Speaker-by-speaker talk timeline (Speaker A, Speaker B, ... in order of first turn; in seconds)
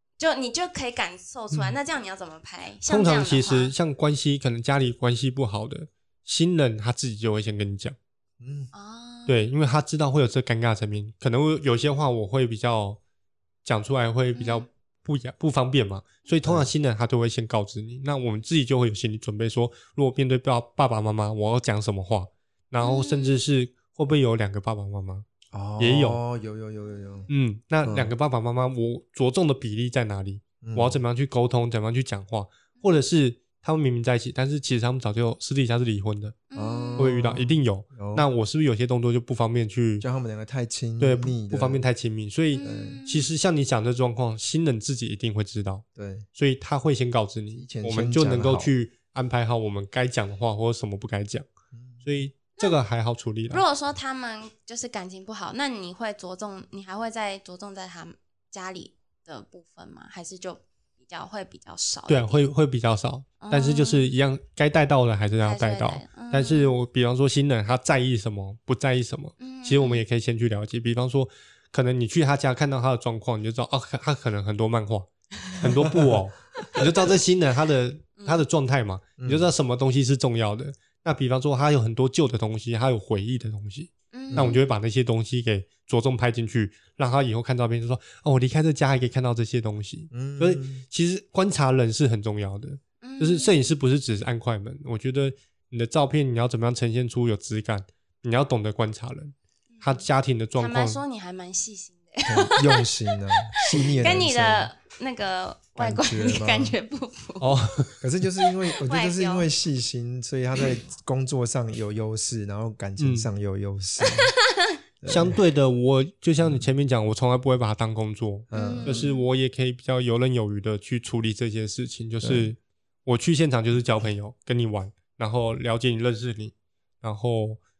Speaker A: 0.2-3.7, 8.7-9.5, 14.3-14.7, 22.8-23.4, 36.5-37.1, 42.5-43.3, 53.5-62.4, 63.4-64.1, 65.4-66.8, 69.4-70.0, 78.2-78.4, 84.1-84.6, 93.0-93.5, 99.7-100.0, 100.6-107.7, 108.7-109.5, 114.0-114.8, 118.5-119.3
Speaker B: 2.9-8.0, 9.3-13.0, 13.6-25.3, 25.8-26.2, 27.3-36.4, 37.0-40.0, 41.0-45.8, 46.4-51.5, 52.0-53.6, 62.1-101.0, 107.4-108.0, 113.0-113.3, 115.0-127.6
Speaker C: 8.4-8.7, 16.4-16.7, 25.5-27.3, 27.8-28.1, 30.6-31.0, 36.5-38.3, 40.0-41.8, 42.6-43.0, 46.0-46.2, 47.5-48.7, 51.7-52.0, 75.6-76.2, 79.2-79.5, 84.3-84.6, 90.1-90.8, 102.3-104.7, 105.8-106.8, 108.0-114.3, 115.0-115.4, 116.4-116.7, 118.5-119.1, 122.2-122.5